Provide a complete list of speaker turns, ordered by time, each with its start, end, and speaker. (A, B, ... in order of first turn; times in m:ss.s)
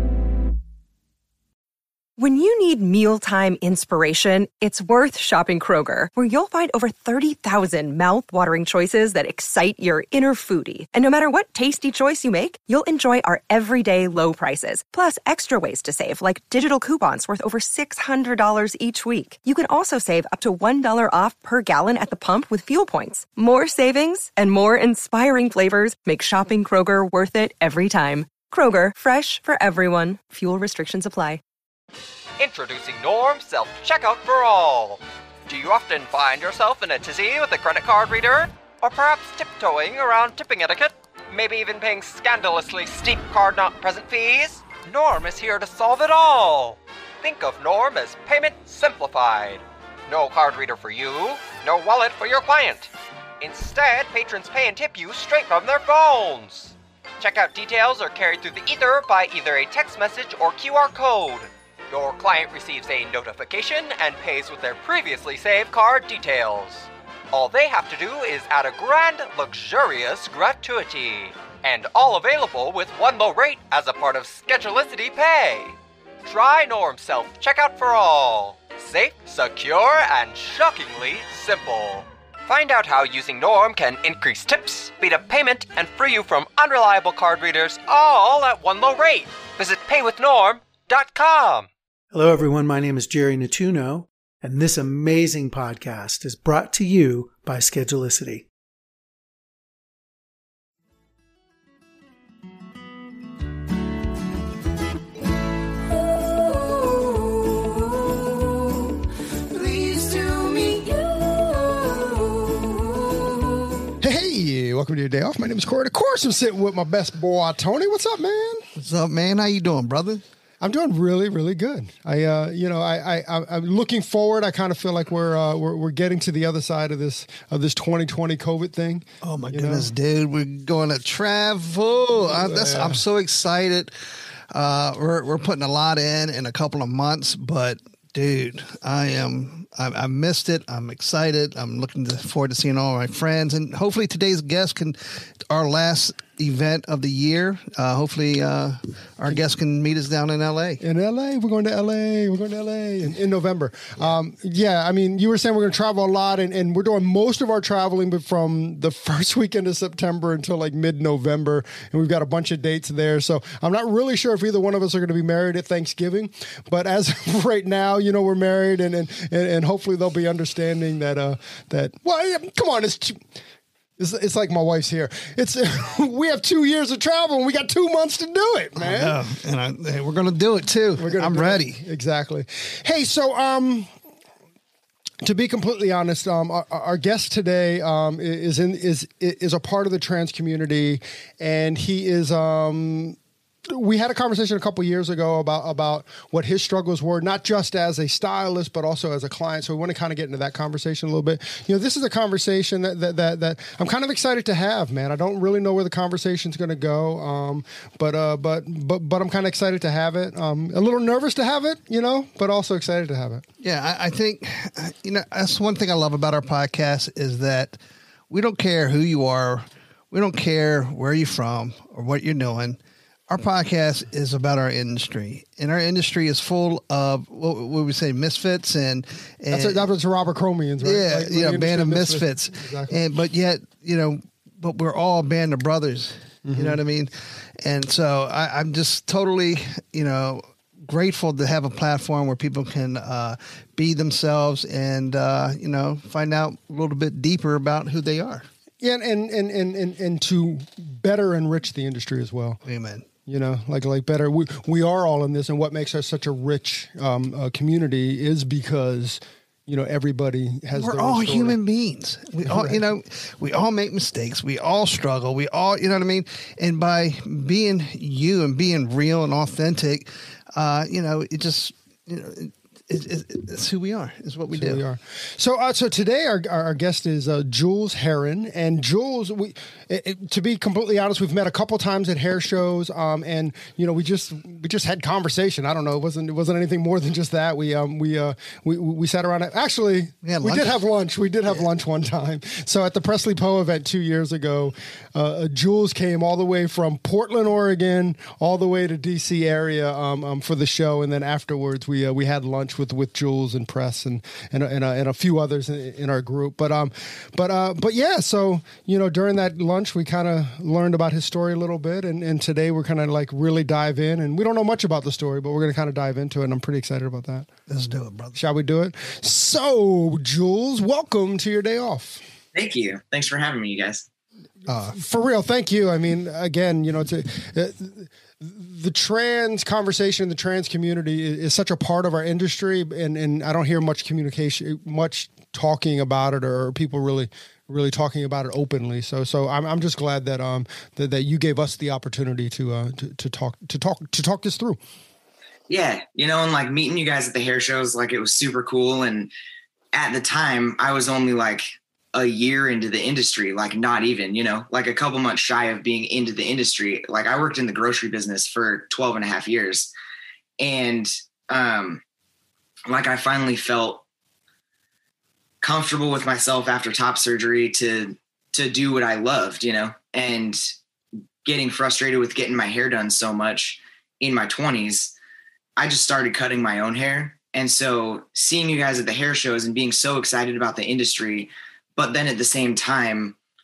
0:02.2-0:31.4 A
0:32.4-1:31.7 B
1:32.1-1:38.5 C
1:54.0-1:58.7 D
1:58.8-2:00.2 E
2:00.6-2:09.9 D
2:09.2-2:13.9 E
2:12.2-2:13.0 D
2:14.5-2:30.8 E
2:30.8-2:53.2 D
2:54.0-2:59.2 D
2:58.8-3:01.8 E
3:01.0-3:03.9 D
3:05.2-3:13.2 D
3:13.7-3:33.4 D
3:33.6-3:37.8 E
3:38.3-3:49.8 E
3:49.5-3:53.0 D
3:50.8-4:08.5 E
3:56.4-3:56.8 D
4:08.8-4:12.6 D
4:12.6-4:13.0 E
4:13.3-4:21.6 D
4:20.7-4:34.8 E
4:22.4-4:22.8 D
4:34.5-5:17.5 D
4:50.2-4:50.7 E
5:17.7-5:18.4 E
5:18.4-5:22.2 D
5:22.5-5:24.0 F
5:24.7-5:25.0 E
5:24.9-5:44.8 D
5:45.7-5:49.3 F
5:49.9-5:59.9 F
6:00.6-6:02.0 F
6:02.9-6:04.0 F
6:05.6-6:10.7 F
6:11.4-6:15.1 F
6:15.8-6:23.4 F